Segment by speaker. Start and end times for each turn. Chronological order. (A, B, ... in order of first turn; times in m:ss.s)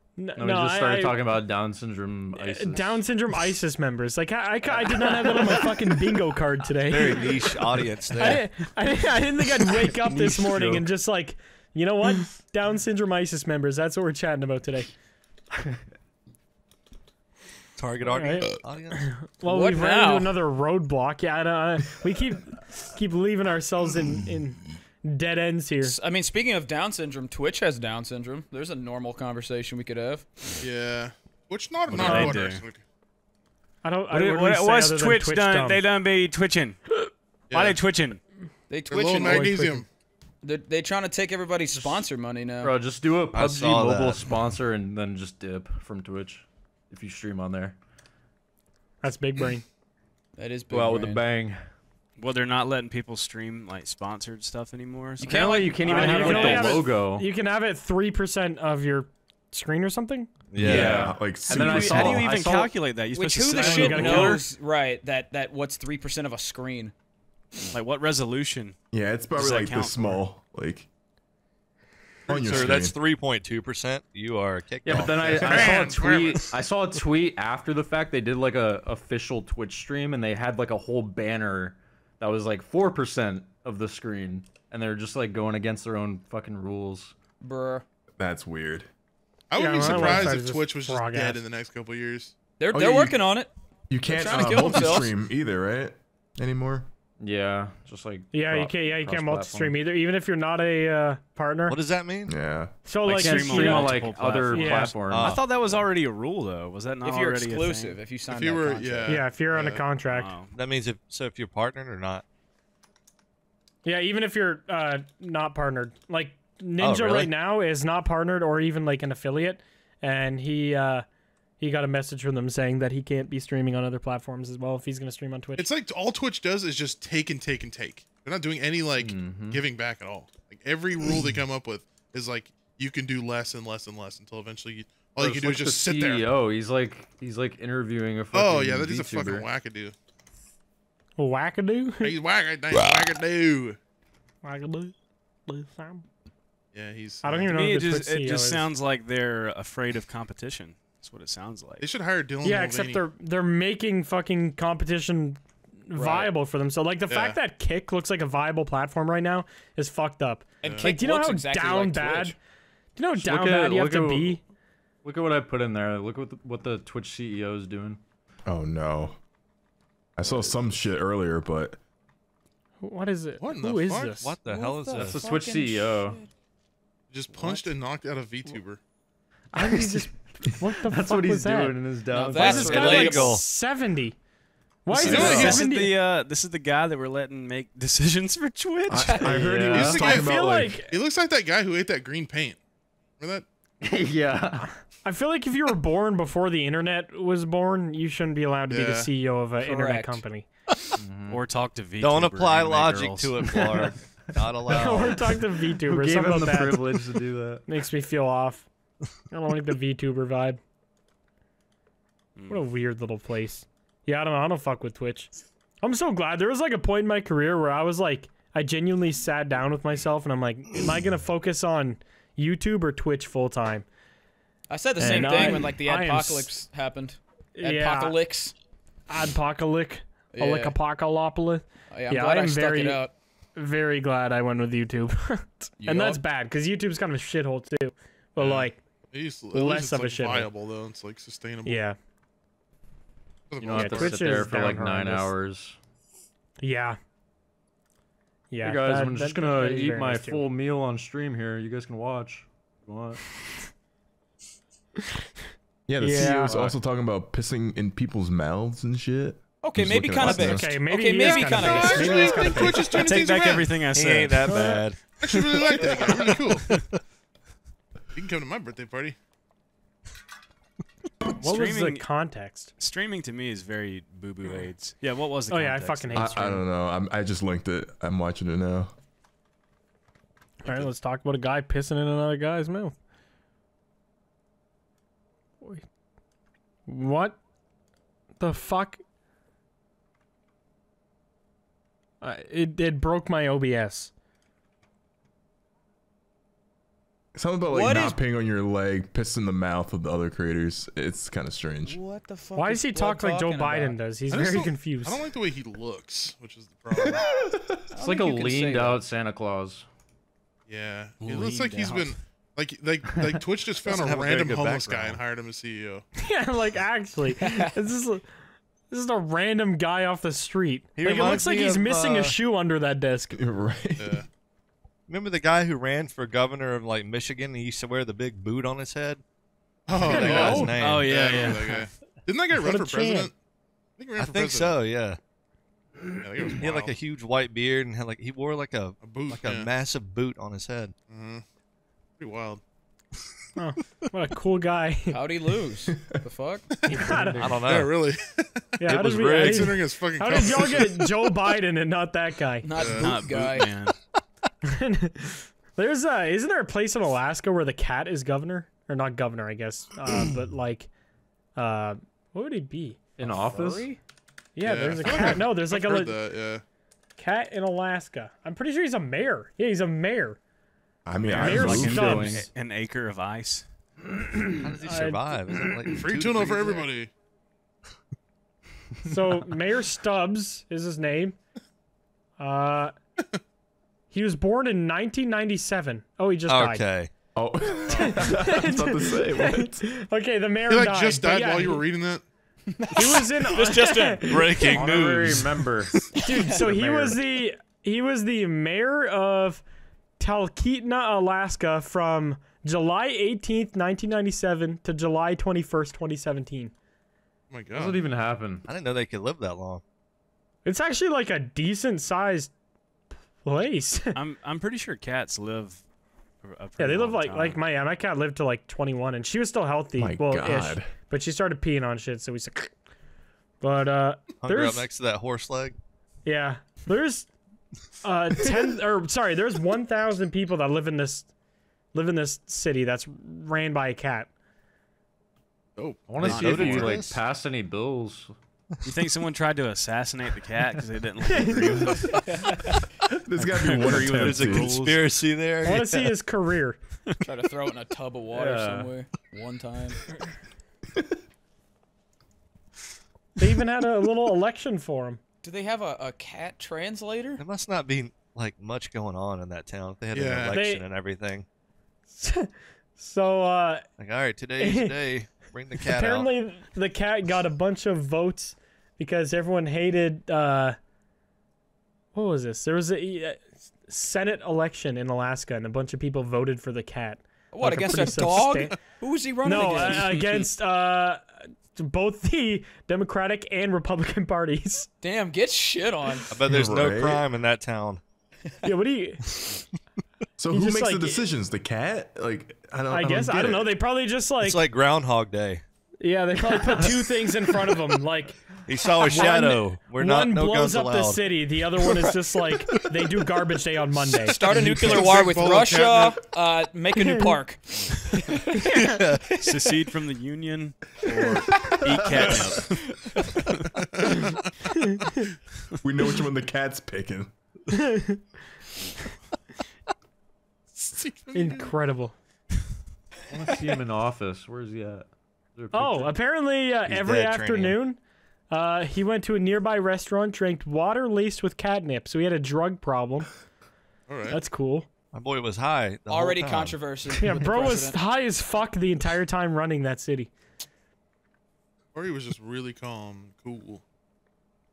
0:00.2-0:01.3 A
0:00.4-0:03.0 B
0:02.4-0:14.9 A
0:04.9-0:05.8 B
0:06.8-0:08.5 C
0:09.9-0:10.9 B
0:17.8-0:19.1 C
0:18.1-0:26.0 A
0:19.4-0:20.4 D
0:25.8-0:30.4 D
0:30.6-0:32.8 E
0:31.9-0:32.6 F
0:32.0-0:32.4 B
0:33.8-0:35.8 A
0:34.1-0:38.2 F
0:37.5-0:37.8 E
0:38.7-0:39.6 D
0:38.9-0:39.9 E
0:39.2-0:39.8 A
0:40.4-0:42.8 D
0:42.6-0:47.8 B
0:43.3-0:44.3 C
0:49.0-0:49.7 A
0:50.4-0:51.3 D
0:50.7-0:51.6 B
0:52.2-0:56.7 F
0:55.2-0:56.9 D
0:55.3-0:57.3 B
0:55.9-1:00.3 A
1:00.5-1:01.2 C
1:00.6-1:02.3 G
1:00.6-1:02.7 B
1:01.4-1:04.4 F
1:03.1-1:06.9 D
1:03.5-1:04.4 A
1:07.7-1:08.8 F
1:08.9-1:10.9 G
1:09.3-1:10.2 F
1:12.3-1:12.8 E
1:12.3-1:13.0 G
1:12.4-1:16.0 C
1:14.8-1:27.2 B
1:14.9-1:15.8 G
1:15.3-1:16.6 E
1:27.4-1:27.8 D
1:28.2-1:28.9 G
1:29.5-1:32.4 E
1:29.6-1:31.4 A
1:32.6-1:33.5 D
1:32.7-1:33.2 G
1:33.9-1:36.9 G
1:34.0-1:35.1 D
1:37.2-1:39.8 B
1:38.3-1:41.8 A
1:41.7-1:42.3 C
1:42.3-1:42.7 G
1:42.9-1:45.0 A
1:43.0-1:48.0 F
1:43.1-1:45.4 B
1:45.1-1:45.8 C
1:47.0-1:49.2 D
1:48.3-1:49.8 E
1:49.1-1:50.3 A
1:50.1-1:50.5 F
1:50.5-1:52.2 C
1:53.8-2:01.0 A
1:56.8-1:57.3 C
2:01.6-2:05.7 A
2:05.6-2:16.3 E
2:09.0-2:09.6 B
2:15.2-2:19.5 B
2:18.3-2:19.9 E
2:21.2-2:22.2 A
2:22.0-2:23.8 E
2:24.4-2:25.0 A
2:25.5-2:26.0 A
2:26.7-2:27.5 E
2:27.2-2:28.7 A
2:27.5-2:31.9 F
2:31.8-2:33.0 E
2:32.4-2:42.4 A
2:35.9-2:36.3 D
2:37.1-2:37.4 E
2:40.6-2:42.4 D
2:40.6-2:40.9 E
2:43.0-2:44.4 A
2:43.2-2:44.4 B
2:45.0-2:48.0 B
2:48.5-2:49.2 G
2:50.2-2:51.8 G
2:52.8-2:54.4 A
2:53.4-2:54.3 E
2:54.2-2:55.3 C
2:54.4-2:56.3 D
2:55.0-2:56.2 B
2:57.1-2:58.8 E
2:59.5-3:03.1 B
2:59.6-3:01.8 A
3:02.1-3:03.4 D
3:02.4-3:04.2 A
3:02.5-3:03.4 C
3:04.8-3:06.0 A
3:04.9-3:09.5 F
3:04.9-3:05.7 E
3:08.9-3:10.8 G
3:09.0-3:09.8 D
3:09.4-3:10.1 B
3:09.8-3:12.6 E
3:09.8-3:11.0 A
3:13.2-3:13.5 E
3:13.8-3:14.7 B
3:15.0-3:20.5 A
3:18.7-3:19.1 E
3:19.6-3:20.2 D
3:21.0-3:21.4 B
3:21.3-3:23.7 F
3:22.0-3:25.3 C
3:24.7-3:27.0 A
3:25.8-3:27.6 B
3:27.6-3:28.7 A
3:29.3-3:30.6 A
3:32.4-3:32.7 F
3:32.5-3:35.3 A
3:35.8-3:43.9 A
3:44.7-3:48.6 D
3:45.0-3:46.5 A
3:45.0-3:45.6 B
3:47.6-3:48.2 A
3:49.1-3:53.0 A
3:50.3-3:50.8 D
3:51.9-3:53.1 D
3:53.6-3:58.8 A
3:55.8-3:56.2 D
3:58.4-4:01.8 E
3:59.5-4:00.5 A
4:01.6-4:02.0 A
4:03.5-4:04.5 E
4:03.6-4:05.8 B
4:03.7-4:05.3 A
4:06.6-4:07.0 A
4:08.5-4:10.4 A
4:08.6-4:13.2 B
4:15.9-4:20.8 G
4:16.0-4:16.6 A
4:16.1-4:16.8 B
4:19.6-4:22.8 D
4:20.2-4:23.2 A
4:21.2-4:23.8 E
4:22.8-4:26.8 F
4:23.9-4:25.2 C
4:24.5-4:24.8 A
4:25.2-4:26.8 E
4:25.7-4:27.0 C
4:28.2-4:29.2 E
4:31.3-4:32.7 A
4:31.3-4:32.0 F
4:32.8-4:36.3 F
4:35.5-4:36.6 A
4:36.1-4:38.9 G
4:40.6-4:43.0 A
4:46.9-4:47.4 A
4:48.4-4:49.0 A
4:52.2-4:54.1 A
4:57.4-5:02.0 G
4:57.7-4:58.2 D
5:01.9-5:04.0 D
5:02.6-5:05.2 A
5:04.3-5:07.3 E
5:07.0-5:07.9 G
5:07.9-5:09.0 D
5:08.0-5:09.8 B
5:10.7-5:16.0 E
5:11.2-5:12.2 F
5:13.8-5:15.2 C
5:16.2-5:18.3 A
5:17.4-5:17.7 D
5:18.9-5:23.4 A
5:21.0-5:22.4 C
5:23.4-5:24.2 G
5:24.0-5:24.2 E
5:25.1-5:29.2 C
5:29.9-5:33.3 E
5:29.9-5:31.1 C
5:30.1-5:30.7 A
5:30.4-5:31.9 F
5:32.6-5:33.3 A
5:34.0-5:34.8 E
5:34.2-5:35.2 C
5:36.2-5:37.0 E
5:36.6-5:40.9 C
5:39.0-5:39.7 E
5:41.1-5:41.4 E
5:42.2-5:42.6 E
5:43.6-5:45.2 A
5:45.1-5:46.7 D
5:46.8-5:47.0 E
5:46.8-5:47.5 A
5:47.0-5:47.6 B
5:47.4-5:48.0 C
5:47.6-5:51.0 E
5:48.8-5:52.7 A
5:48.9-5:49.8 C
5:52.6-5:53.7 D
5:52.8-5:53.1 E
5:52.8-5:53.9 F
5:54.6-6:00.9 A
6:01.6-6:03.0 A
6:03.2-6:03.9 B
6:03.2-6:04.0 D
6:04.6-6:06.2 A
6:04.6-6:06.6 E
6:07.2-6:10.4 A
6:11.1-6:12.4 G
6:11.3-6:13.6 F
6:11.3-6:12.5 B
6:11.3-6:12.5 A
6:14.3-6:15.2 A
6:14.6-6:16.9 C
6:15.9-6:17.1 E
6:19.0-6:21.4 A
6:22.4-6:23.0 A
6:24.1-6:26.8 A
6:26.5-6:27.1 C
6:27.4-6:29.9 G
6:27.9-6:28.2 E
6:27.9-6:31.9 A
6:30.7-6:32.2 E
6:32.8-6:34.8 A
6:33.0-6:34.6 D
6:34.3-6:35.7 C
6:34.6-6:37.2 B
6:36.2-6:36.7 D
6:36.2-6:39.6 A
6:40.2-6:46.7 A
6:47.5-6:48.0 E
6:47.7-6:48.7 B
6:48.7-6:49.8 C
6:50.6-6:52.5 A
6:53.4-6:54.2 A
6:54.2-6:55.8 F
6:56.4-6:57.6 F
6:56.8-7:02.7 A
7:00.0-7:00.9 G
7:03.6-7:04.9 A
7:04.4-7:05.8 C
7:06.2-7:07.3 A
7:08.0-7:11.3 A
7:11.9-7:14.3 A
7:15.8-7:16.8 E
7:16.1-7:18.3 B
7:16.2-7:17.2 C
7:16.2-7:17.0 F
7:18.8-7:22.3 F
7:21.3-7:22.2 A
7:22.1-7:22.7 D
7:23.2-7:24.8 G
7:23.4-7:25.0 F
7:23.9-7:26.2 C
7:25.6-7:26.8 A
7:27.2-7:30.0 D
7:28.3-7:28.9 B
7:33.4-7:35.2 A
7:35.4-7:37.4 D
7:37.4-7:41.5 C
7:40.1-7:40.6 E
7:40.5-7:40.8 A
7:42.2-7:43.8 A
7:44.0-7:46.3 C
7:44.6-7:45.0 A
7:45.8-7:50.8 A
7:52.1-7:58.8 A
7:57.5-8:00.2 D
7:59.4-8:04.9 A
8:05.0-8:06.3 D
8:06.3-8:08.0 C
8:06.4-8:07.3 G
8:08.6-8:09.2 A
8:10.4-8:13.8 G
8:10.5-8:11.2 A
8:12.9-8:14.6 A
8:14.4-8:15.6 C
8:16.0-8:18.4 A
8:18.7-8:22.0 C
8:19.0-8:24.4 A
8:24.1-8:28.7 D
8:24.5-8:26.3 E
8:28.7-8:29.2 C
8:29.3-8:29.7 D
8:29.4-8:33.2 F
8:34.0-8:35.2 E
8:34.7-8:35.1 A
8:35.8-8:37.3 G
8:37.7-8:38.2 A
8:40.8-8:41.7 E
8:41.3-8:42.1 A
8:43.3-8:46.2 B
8:45.7-8:48.0 A
8:46.9-8:47.8 C
8:48.5-8:53.3 A
8:54.1-8:54.4 E
8:54.3-8:54.9 A
8:55.1-8:56.8 C
8:56.1-8:58.0 D
8:57.2-9:00.3 A
9:01.9-9:03.8 E